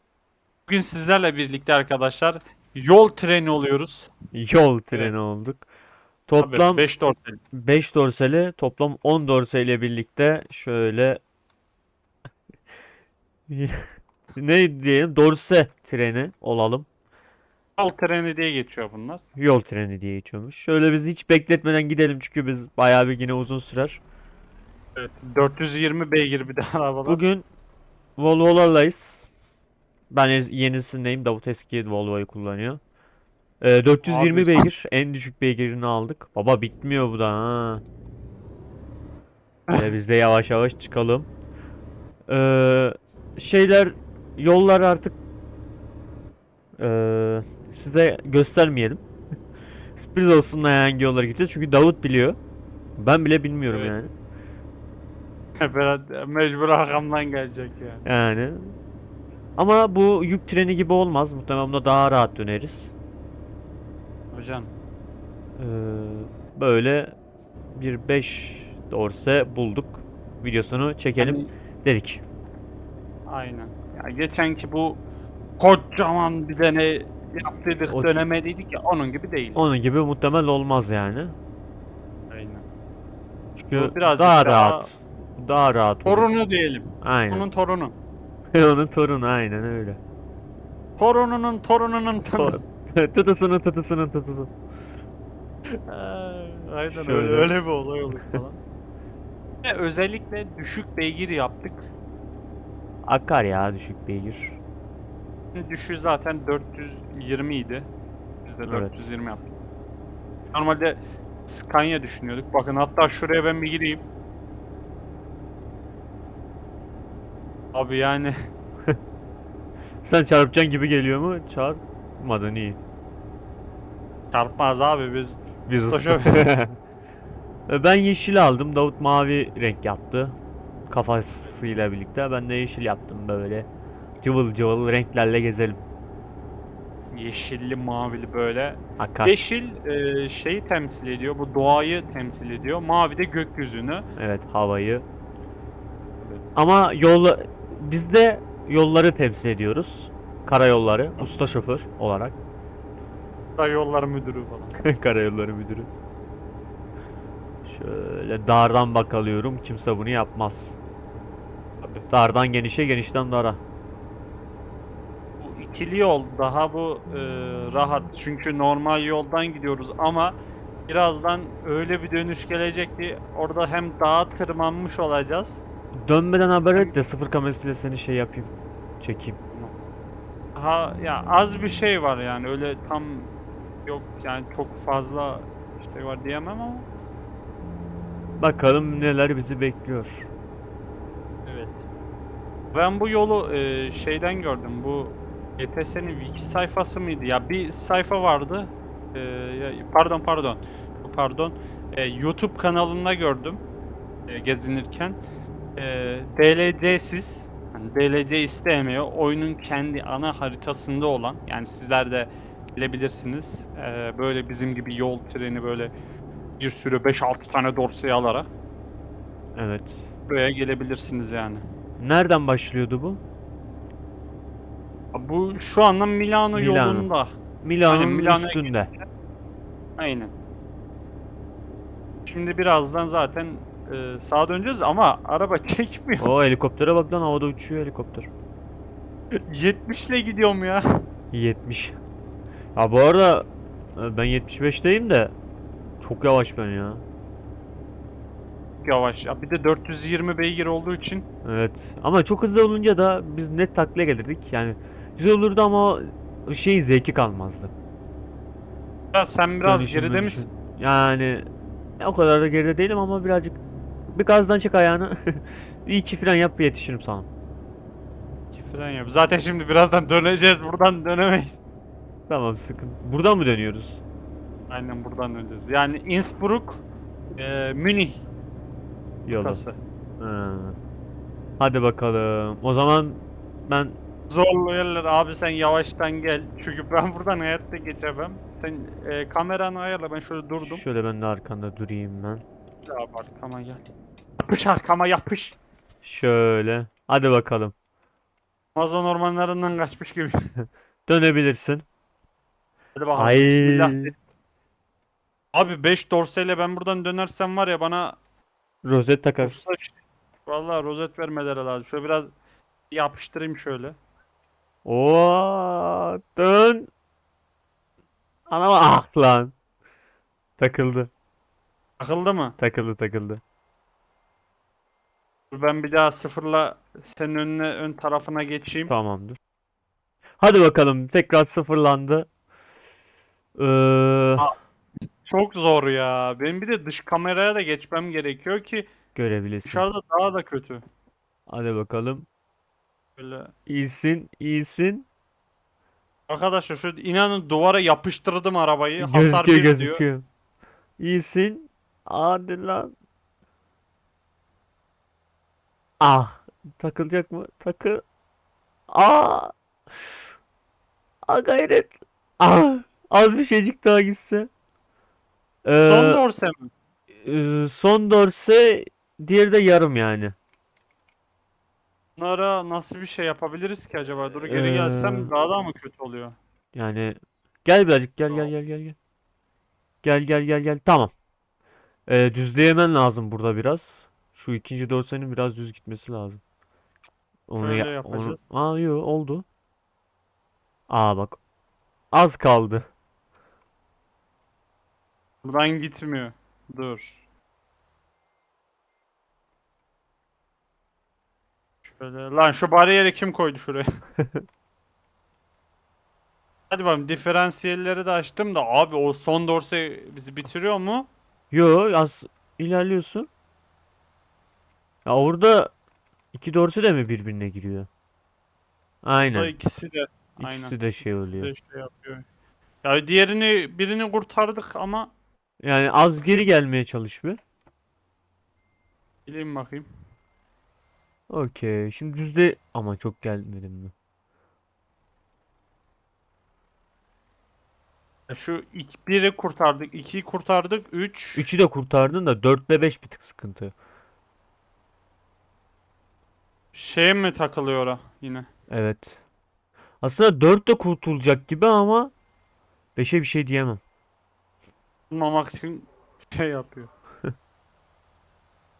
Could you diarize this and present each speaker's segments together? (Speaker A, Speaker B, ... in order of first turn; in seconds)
Speaker A: 0.7-4.1, 6.4-7.4, 17.8-19.2, 25.0-27.2, 34.0-34.7, 53.7-54.0, 55.6-58.0, 64.3-64.7, 71.2-71.5, 73.3-75.0, 75.6-79.6, 82.3-82.7, 83.7-84.9, 86.0-87.9, 91.0-92.6, 95.9-98.6, 99.6-101.9, 105.5-107.9, 108.4-109.5, 110.5-114.0, 117.7-118.3, 124.3-126.5, 131.5-131.8, 137.1-144.1, 153.6-154.8, 165.4-170.4, 170.9-175.6, 180.6-183.3, 183.9-186.9, 191.5-191.8, 192.7-203.6, 204.3-205.2, 205.8-215.9, 216.6-218.5, 220.3-221.6, 225.1-227.3, 227.9-228.9, 230.0-230.3, 232.3-236.3, 239.3-240.8, 248.8-251.2, 259.1-260.5, 268.5-271.6, 274.7-276.8, 277.4-278.2, 279.3-279.8, 284.3-290.8, 292.9-293.8, 294.4-295.6, 298.8-300.4, 303.0-304.1, 305.5-308.2, 309.4-312.3, 312.9-314.0, 322.0-322.6, 325.5-328.9, 335.2-338.9, 339.7-340.8, 343.2-343.5, 346.3-350.0, 365.8-366.7, 372.2-376.4, 387.6-388.4, 395.4-397.2, 401.8-403.9, 406.7-411.1, 419.3-422.2, 422.8-425.1, 429.3-429.9, 438.3-441.5, 446.7-448.5, 455.1-456.9
Speaker B: 4.3-5.7, 6.3-6.8, 7.5-11.2, 13.5-16.9, 19.4-24.0, 27.1-27.5, 28.2-29.2, 30.1-32.8, 33.6-37.8, 39.7-41.3, 42.3-45.2, 46.8-49.0, 50.0-52.4, 53.0-54.1, 58.0-58.7, 59.6-62.9, 65.6-67.1, 67.8-72.2, 77.9-78.2, 79.6-81.4, 83.6-86.3, 87.0-87.5, 88.5-90.0, 92.4-94.5, 96.9-97.5, 98.1-98.4, 103.0-104.6, 108.7-109.0, 120.0-122.8, 125.7-126.8, 127.7-130.4, 130.9-133.7, 134.2-135.8, 139.0-139.4, 144.2-145.1, 146.6-152.4, 154.8-155.9, 157.7-160.8, 162.1-163.6, 176.0-179.4, 188.4-190.3, 219.6-220.1, 222.0-223.2, 226.5-227.1, 227.6-228.9, 236.2-238.3, 241.3-242.0, 242.8-245.3, 246.0-247.0, 251.4-257.7, 259.6-261.4, 262.0-267.3, 272.3-274.0, 279.2-279.6, 280.2-280.8, 281.6-284.0, 290.6-292.4, 296.0-297.7, 301.1-301.9, 303.2-304.1, 308.8-309.6, 314.9-316.9, 318.5-319.5, 320.6-321.1, 322.6-323.4, 328.9-329.4, 330.4-332.3, 333.6-334.5, 339.1-339.9, 341.5-342.3, 343.7-345.1, 349.0-350.2, 351.0-352.9, 356.0-358.0, 358.9-359.5, 361.3-364.5, 365.6-366.2, 367.2-370.4, 374.5-375.3, 376.8-379.0, 380.0-381.1, 382.1-386.4, 387.5-389.4, 390.9-391.4, 392.1-392.9, 411.5-413.3, 415.1-415.7, 416.3-417.9, 419.0-419.5, 420.4-421.5, 425.6-427.4, 431.3-433.9, 441.4-443.7, 448.7-449.2, 450.0-452.1, 453.0-453.8